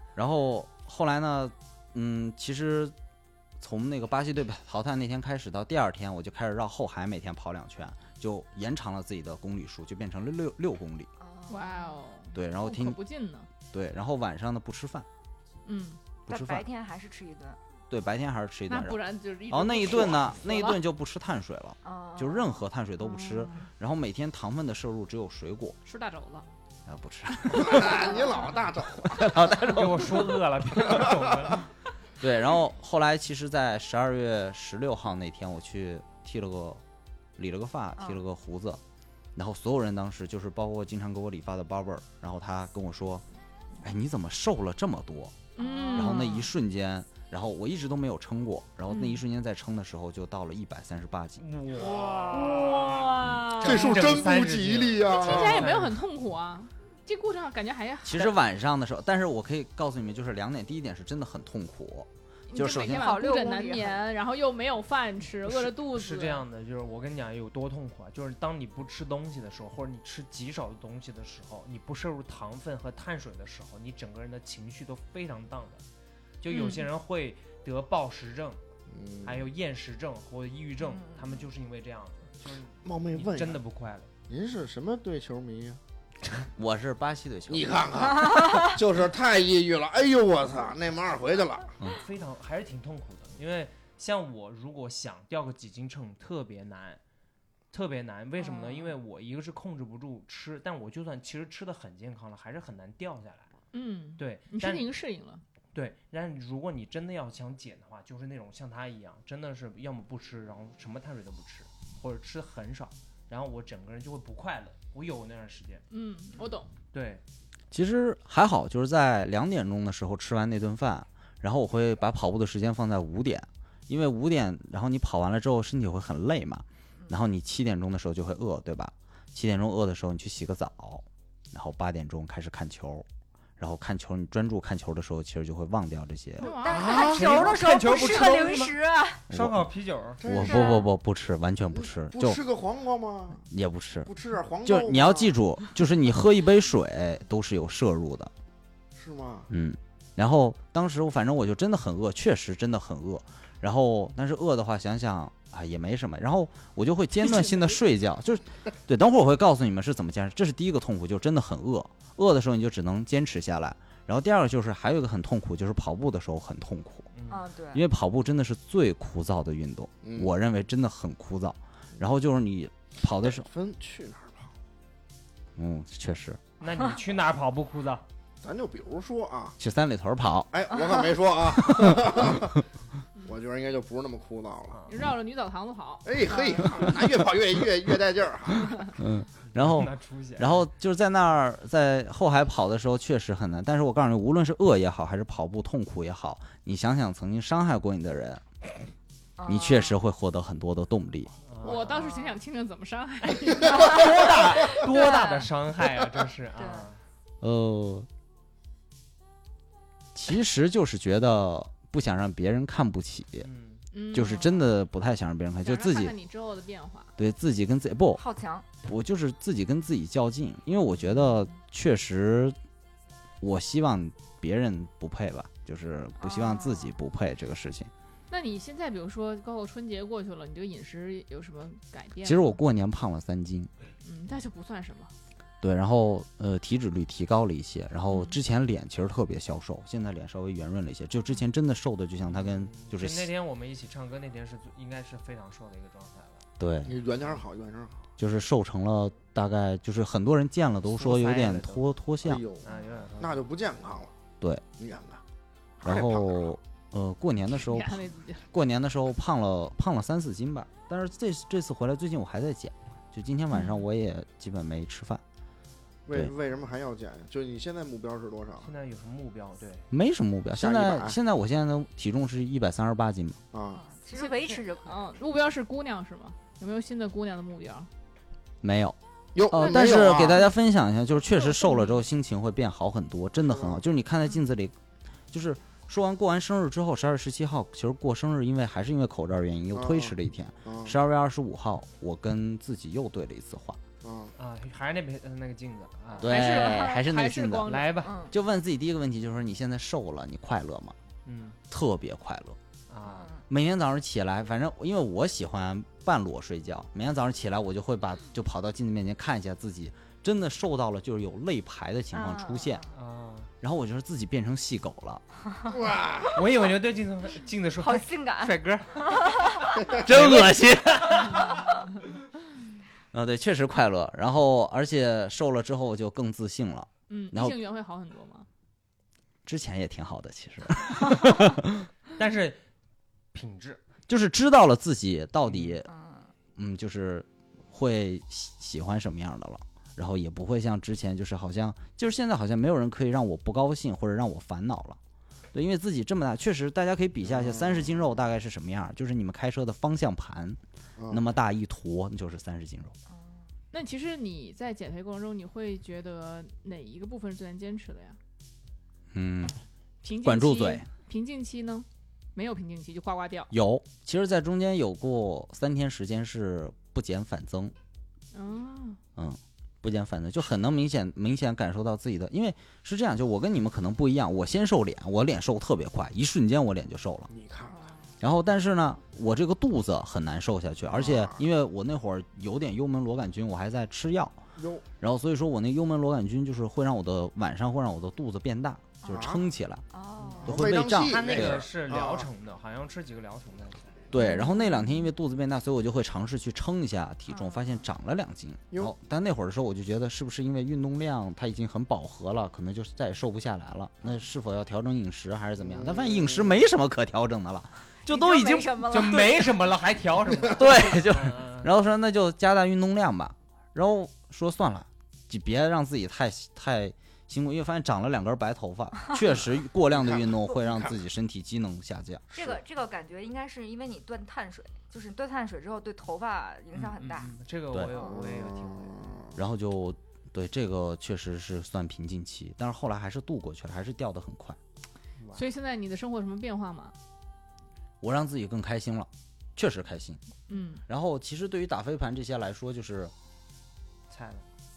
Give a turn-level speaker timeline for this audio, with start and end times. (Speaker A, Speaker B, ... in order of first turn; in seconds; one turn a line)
Speaker A: 0.1-2.9
Speaker A: 3.6-11.1
Speaker B: 11.2-12.0
Speaker C: 11.5-13.5
Speaker A: 12.3-13.0
Speaker A: 13.7-15.1
Speaker C: 15.6-16.0
Speaker A: 16.3-16.7
Speaker B: 16.3-17.6
Speaker A: 17.9-25.8
Speaker C: 18.7-20.8
Speaker B: 21.8-22.6
Speaker B: 23.1-23.6
Speaker C: 25.8-26.5
Speaker A: 26.9-28.1
Speaker D: 27.5-29.2
Speaker B: 28.0-28.4
Speaker A: 29.0-30.4
Speaker E: 29.6-31.7
Speaker A: 32.2-36.8
Speaker A: 37.4-38.8
Speaker A: 39.3-43.2
Speaker A: 43.8-45.4
Speaker C: 45.5-46.5
Speaker B: 45.6-46.5
Speaker A: 45.9-51.4
Speaker C: 48.9-49.2
Speaker E: 51.4-56.0
Speaker D: 51.9-52.9
Speaker C: 52.3-54.2
Speaker D: 53.6-55.7
Speaker C: 55.1-58.4
Speaker A: 58.0-63.0
Speaker C: 62.5-66.4
Speaker B: 62.8-64.0
Speaker E: 65.6-75.8
Speaker E: 76.4-78.6
Speaker C: 76.5-76.8
Speaker D: 78.9-79.5
Speaker E: 79.2-84.1
Speaker B: 80.8-81.4
Speaker D: 82.8-83.6
Speaker D: 84.3-85.8
Speaker A: 86.3-87.8
Speaker D: 87.5-91.7
Speaker B: 88.3-88.7
Speaker E: 91.9-97.0
Speaker E: 97.7-103.5
Speaker B: 98.4-98.9
Speaker C: 103.7-105.4
Speaker E: 104.2-104.9
Speaker E: 105.7-115.8
Speaker C: 115.9-116.7
Speaker E: 116.9-117.2
Speaker A: 117.7-133.1
Speaker A: 133.6-136.5
Speaker C: 136.4-137.2
Speaker B: 136.4-139.2
Speaker D: 136.7-137.5
Speaker E: 136.7-138.8
Speaker E: 139.3-140.2
Speaker A: 139.3-139.7
Speaker D: 140.2-140.8
Speaker A: 140.2-142.4
Speaker B: 140.3-140.8
Speaker D: 141.8-143.4
Speaker A: 143.5-144.1
Speaker D: 144.0-145.3
Speaker A: 144.6-148.3
Speaker D: 148.9-149.5
Speaker A: 149.5-167.1
Speaker E: 167.1-167.4
Speaker B: 167.3-167.8
Speaker A: 167.7-173.5
Speaker D: 170.0-170.3
Speaker D: 173.2-174.5
Speaker A: 175.6-176.4
Speaker E: 176.6-178.0
Speaker D: 178.4-179.6
Speaker A: 179.6-180.5
Speaker D: 180.5-182.6
Speaker A: 181.5-182.4
Speaker D: 183.2-184.8
Speaker C: 184.9-186.8
Speaker D: 186.0-189.0
Speaker A: 189.0-198.4
Speaker E: 189.5-190.7
Speaker B: 199.4-200.0
Speaker A: 199.5-201.3
Speaker E: 201.5-201.9
Speaker C: 201.6-204.1
Speaker B: 201.7-202.4
Speaker E: 203.4-207.0
Speaker B: 203.7-205.5
Speaker B: 206.6-206.9
Speaker A: 207.4-208.1
Speaker A: 210.1-213.5
Speaker E: 213.4-213.8
Speaker C: 213.9-214.6
Speaker A: 214.1-216.1
Speaker C: 215.6-217.1
Speaker A: 217.2-218.2
Speaker B: 218.1-218.7
Speaker A: 218.8-222.6
Speaker A: 223.4-227.9
Speaker B: 226.2-226.9
Speaker C: 228.3-232.6
Speaker A: 232.2-233.7
Speaker C: 234.0-235.1
Speaker A: 235.6-243.3
Speaker E: 242.3-246.4
Speaker A: 246.6-246.9
Speaker D: 246.8-248.0
Speaker A: 248.2-252.4
Speaker E: 250.9-251.8
Speaker D: 252.2-252.6
Speaker E: 252.6-253.4
Speaker D: 253.2-254.1
Speaker D: 254.8-255.2
Speaker D: 255.8-256.6
Speaker A: 255.8-265.2
Speaker C: 257.5-258.4
Speaker D: 266.1-268.7
Speaker E: 268.6-269.9
Speaker A: 269.9-273.4
Speaker D: 270.6-271.2
Speaker D: 273.5-273.8
Speaker B: 273.7-275.0
Speaker C: 274.1-277.9
Speaker A: 278.6-284.7
Speaker D: 279.3-280.4
Speaker D: 283.5-283.8
Speaker A: 285.3-293.8
Speaker D: 289.7-290.1
Speaker D: 290.6-290.9
Speaker D: 294.0-294.3
Speaker E: 294.4-296.4
Speaker A: 296.2-297.8
Speaker C: 296.2-298.0
Speaker E: 297.7-298.1
Speaker B: 298.0-298.3
Speaker A: 298.3-300.9
Speaker E: 301.2-301.6
Speaker A: 301.7-302.6
Speaker E: 302.9-303.3
Speaker B: 303.0-303.4
Speaker A: 303.5-312.8
Speaker B: 312.1-312.9
Speaker E: 312.9-313.5
Speaker A: 313.6-315.2
Speaker D: 315.7-316.4
Speaker E: 316.3-321.6
Speaker B: 317.8-319.9
Speaker A: 320.0-321.5
Speaker A: 323.1-327.6
Speaker C: 327.1-328.5
Speaker A: 329.4-331.9
Speaker E: 332.1-332.6
Speaker E: 333.3-333.8
Speaker A: 334.1-335.9
Speaker B: 335.9-336.3
Speaker A: 336.6-345.0
Speaker A: 345.5-350.6
Speaker D: 347.3-347.9
Speaker D: 351.0-351.2
Speaker A: 351.1-352.9
Speaker B: 353.1-353.5
Speaker C: 353.7-358.2
Speaker A: 359.1-359.6
Speaker C: 360.0-363.5
Speaker A: 360.2-360.9
Speaker A: 363.5-367.7
Speaker C: 368.3-369.0
Speaker A: 369.1-377.3
Speaker D: 377.3-377.9
Speaker B: 377.7-378.0
Speaker A: 378.2-384.4
Speaker D: 380.9-381.4
Speaker D: 384.6-384.8
Speaker A: 385.0-389.8
Speaker D: 389.1-389.4
Speaker B: 389.9-390.5
Speaker E: 390.2-393.9
Speaker A: 390.4-391.6
Speaker D: 390.4-392.3
Speaker A: 394.1-408.8
Speaker B: 394.2-394.8
Speaker B: 397.3-397.7
Speaker D: 405.6-406.6
Speaker B: 408.1-409.5
Speaker E: 408.9-411.7
Speaker A: 410.5-422.2
Speaker D: 419.9-420.9
Speaker B: 422.3-427.4
Speaker D: 422.3-422.6
Speaker E: 426.7-429.2
Speaker D: 427.9-429.4
Speaker A: 429.3-434.6
Speaker C: 435.3-436.9
Speaker A: 438.0-440.2
Speaker C: 440.5-440.8
Speaker A: 440.9-443.1
Speaker E: 444.1-444.4